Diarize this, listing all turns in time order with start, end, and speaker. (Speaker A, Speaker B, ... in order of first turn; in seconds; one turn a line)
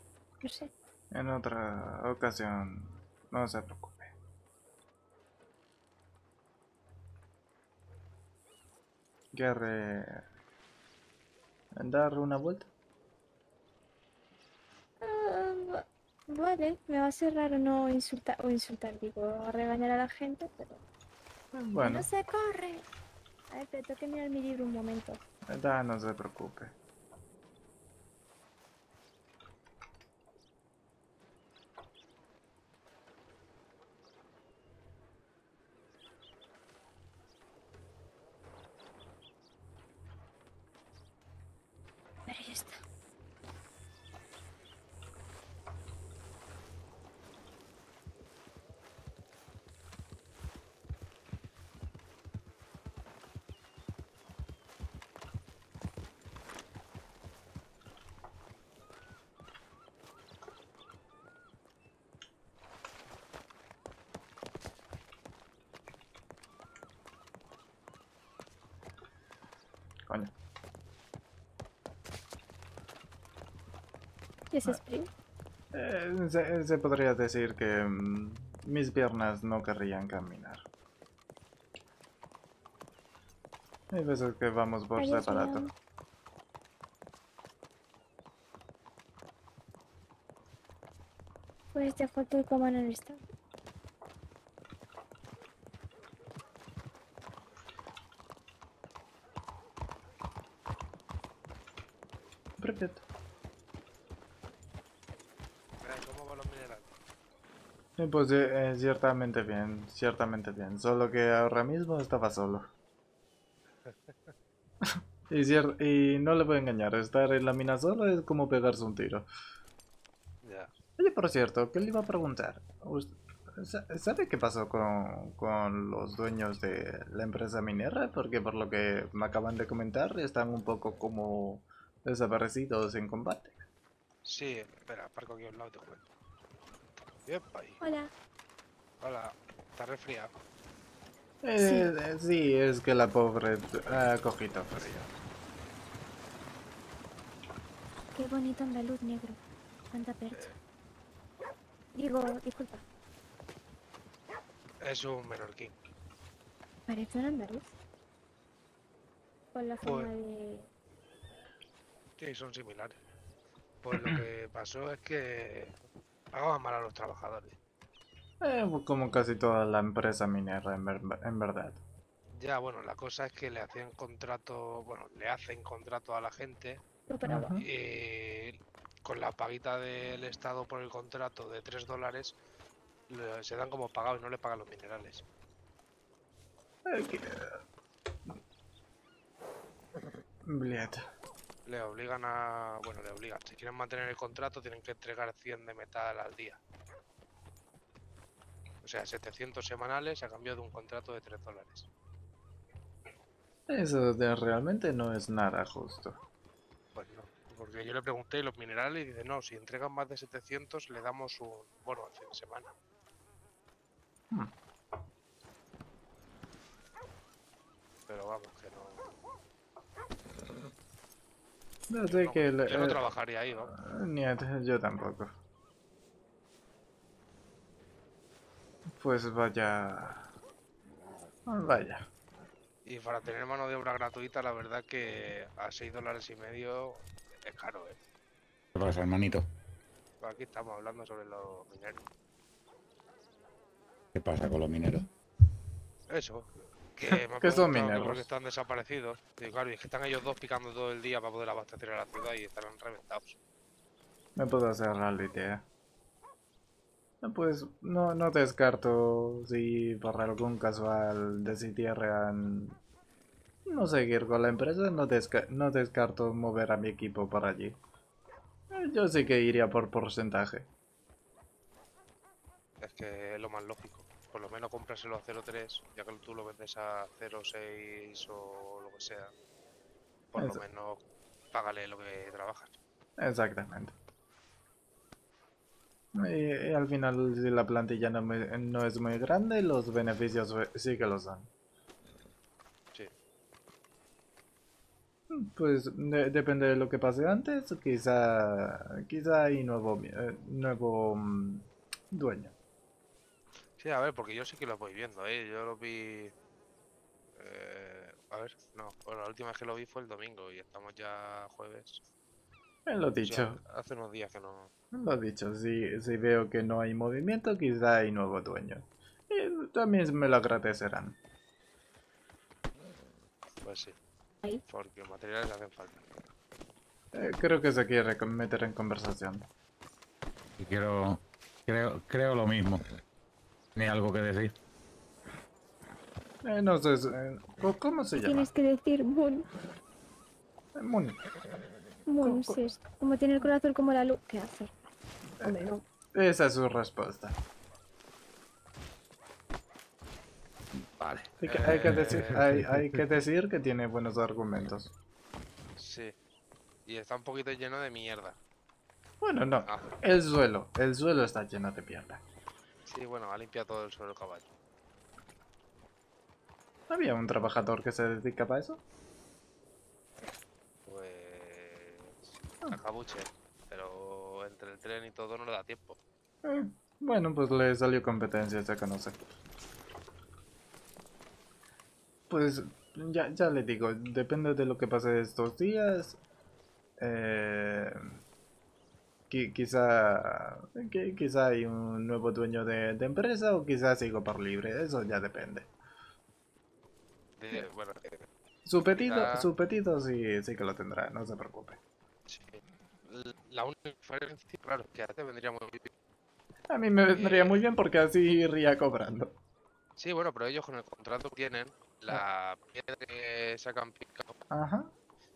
Speaker A: 0.4-0.7
Speaker B: 1.1-4.1
Speaker B: 9.3-10.2
Speaker B: 11.8-12.7
Speaker A: 15.0-20.8
Speaker B: 21.5-22.1
Speaker A: 21.8-22.8
Speaker A: 23.5-25.2
Speaker B: 25.5-26.7
Speaker A: 42.3-42.8
Speaker A: 74.5-75.1
Speaker B: 75.7-80.7
Speaker B: 83.9-85.7
Speaker A: 85.0-85.7
Speaker A: 91.7-93.2
Speaker B: 102.6-103.0
Speaker C: 105.8-106.9
Speaker B: 108.0-112.7
Speaker C: 113.8-114.3
Speaker B: 115.3-119.3
Speaker C: 120.4-120.7
Speaker B: 121.0-133.6
Speaker C: 134.2-136.0
Speaker C: 137.2-137.8
Speaker A: 137.8-138.1
Speaker C: 139.0-140.3
Speaker B: 141.4-145.1
Speaker A: 141.6-141.9
Speaker A: 148.1-149.4
Speaker A: 149.9-150.5
Speaker C: 150.3-150.6
Speaker A: 151.9-152.8
Speaker C: 154.8-155.8
Speaker A: 156.9-157.7
Speaker A: 159.5-160.7
Speaker C: 159.8-160.1
Speaker C: 162.2-163.0
Speaker C: 163.8-165.8
Speaker C: 166.3-167.6
Speaker B: 168.4-171.8
Speaker C: 172.3-176.8
Speaker A: 177.1-177.5
Speaker B: 177.2-177.6
Speaker C: 177.6-182.4
Speaker C: 183.1-185.2
Speaker B: 186.9-187.6
Speaker B: 190.5-191.0
Speaker C: 191.7-196.6
Speaker C: 198.8-201.9
Speaker B: 203.7-206.2
Speaker C: 206.9-212.7
Speaker C: 218.1-219.0
Speaker B: 221.9-223.1
Speaker C: 222.1-223.8
Speaker B: 223.7-225.3
Speaker B: 229.0-230.3
Speaker B: 231.5-232.1
Speaker C: 232.9-238.0
Speaker D: 238.8-239.5
Speaker C: 240.2-242.0
Speaker D: 244.1-245.1
Speaker C: 246.1-253.4
Speaker B: 247.1-248.3
Speaker B: 254.4-255.7
Speaker B: 257.2-262.8
Speaker B: 263.7-267.8
Speaker B: 268.7-270.7
Speaker C: 272.8-279.3
Speaker C: 280.3-281.0
Speaker B: 280.4-280.6
Speaker C: 281.5-282.8
Speaker B: 283.2-283.9
Speaker B: 286.1-291.5
Speaker B: 295.3-302.5
Speaker C: 303.8-306.3
Speaker C: 307.4-312.0
Speaker B: 312.9-313.6
Speaker C: 313.2-314.7
Speaker B: 314.9-321.2
Speaker C: 323.6-324.0
Speaker C: 324.7-326.0
Speaker B: 327.1-329.5
Speaker D: 330.6-332.8
Speaker D: 333.8-334.5
Speaker B: 336.4-338.5
Speaker A: 338.2-339.5
Speaker B: 340.8-341.2
Speaker A: 342.1-344.7
Speaker B: 342.2-342.7
Speaker B: 345.4-347.4
Speaker A: 345.4-345.8
Speaker D: 350.8-352.7
Speaker B: 351.4-354.9
Speaker C: 351.4-352.3
Speaker C: 355.8-356.1
Speaker C: 356.9-358.4
Speaker B: 359.2-362.2
Speaker C: 359.6-360.0
Speaker C: 362.9-364.5
Speaker B: 366.9-368.8
Speaker C: 370.9-376.0
Speaker B: 376.4-379.2
Speaker B: 382.3-386.2
Speaker B: 387.0-388.2
Speaker B: 389.3-395.7
Speaker C: 397.4-398.3
Speaker B: 398.6-401.8
Speaker C: 398.9-399.5
Speaker C: 402.3-405.9
Speaker B: 406.7-409.4
Speaker C: 407.1-407.6
Speaker C: 410.0-414.3
Speaker B: 414.5-414.9